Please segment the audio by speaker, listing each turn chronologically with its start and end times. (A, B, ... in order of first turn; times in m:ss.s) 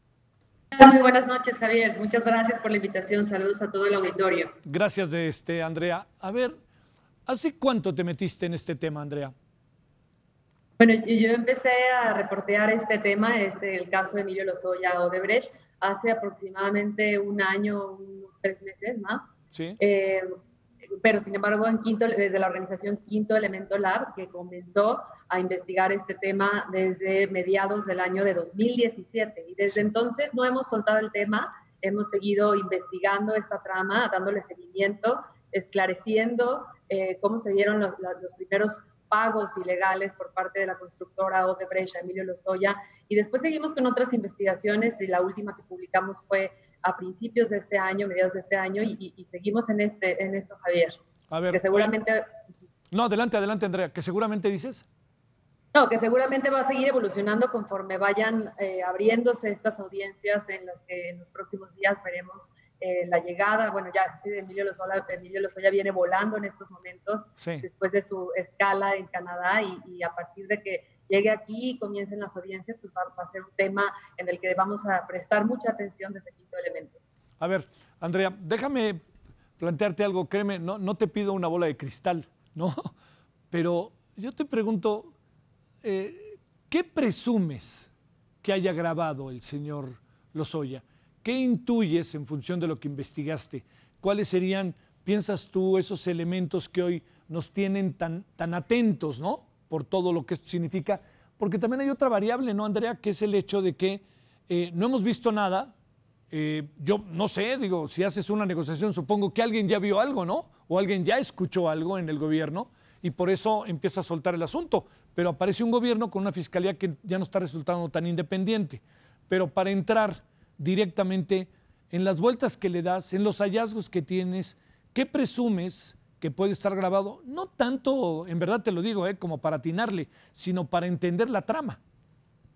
0:00.7-0:04.5 A
0:04.6-0:06.6 B
0:07.3-0:09.3 B
0:10.8-0:20.3 A
0:21.0-0:51.0 A
0:51.3-0:51.9 B
0:51.5-0:52.2 A
0:52.9-0:54.8 B
0:55.7-1:17.0 A
1:07.4-1:07.6 B
1:17.4-1:19.0 B
1:19.6-1:22.9 B
1:23.5-1:25.1 B
1:25.8-1:27.9 B
1:28.4-1:45.7 B
1:46.3-2:11.8 B